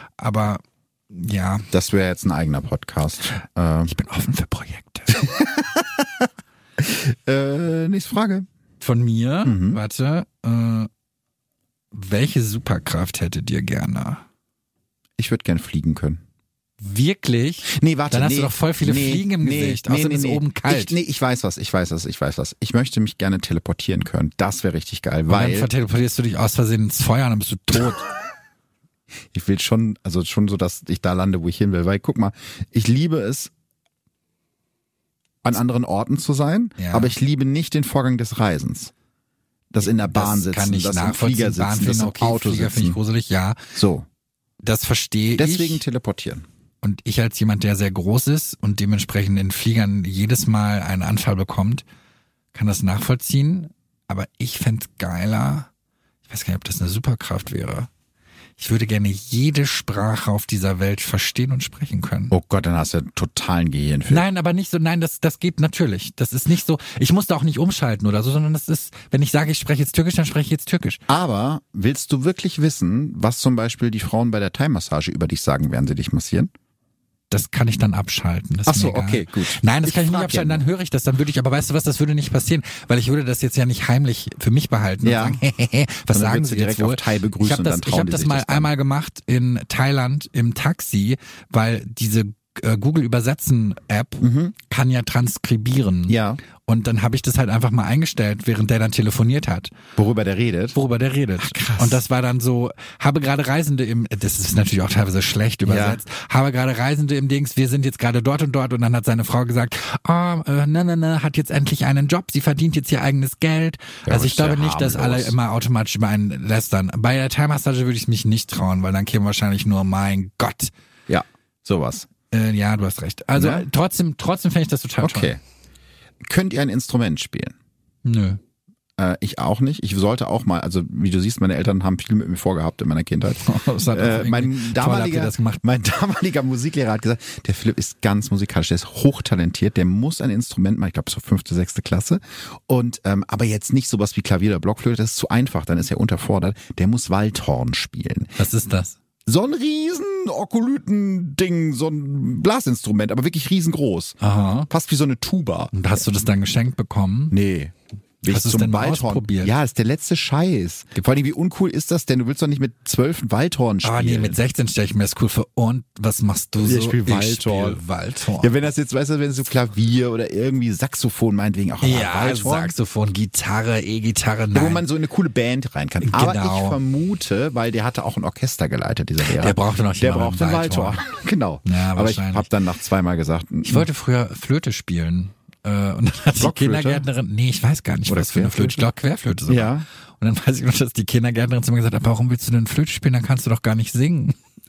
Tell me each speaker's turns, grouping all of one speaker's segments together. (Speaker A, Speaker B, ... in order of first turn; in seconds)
Speaker A: 0.2-1.7, 3.9-5.2, 8.8-10.9, 11.9-14.2, 16.8-20.9, 25.3-28.1, 36.8-37.1, 39.8-43.6, 44.6-45.8, 46.8-51.9, 52.5-55.7, 56.2-57.9, 58.6-62.3, 64.1-71.0, 77.3-99.7, 100.7-120.7, 122.3-125.3, 128.0-128.4, 133.4-135.6, 148.4-149.0, 154.2-154.7, 155.7-157.3, 158.3-159.5, 163.8-168.6, 171.8-174.8, 176.0-176.8, 179.2-181.0, 181.6-182.4, 183.6-194.3
Speaker B: 1.7-3.9, 5.1-6.3, 6.8-8.5, 9.4-9.8, 15.2-16.2, 17.7-25.7, 29.3-33.5, 35.4-38.9, 39.7-43.0, 43.7-44.0, 45.4-46.4, 62.3-64.2, 71.1-76.5, 78.7-80.6, 85.0-85.5, 86.1-88.7, 94.2-94.5, 96.1-96.4, 100.0-100.8, 101.4-102.0, 105.6-106.0, 114.0-115.3, 121.1-122.1, 123.3-123.7, 125.0-125.4, 126.2-127.5, 129.0-148.3, 149.2-154.2, 154.7-155.7, 157.3-164.4, 166.6-167.8, 168.4-172.7, 174.5-183.9, 186.4-187.1, 188.1-188.8, 189.5-189.8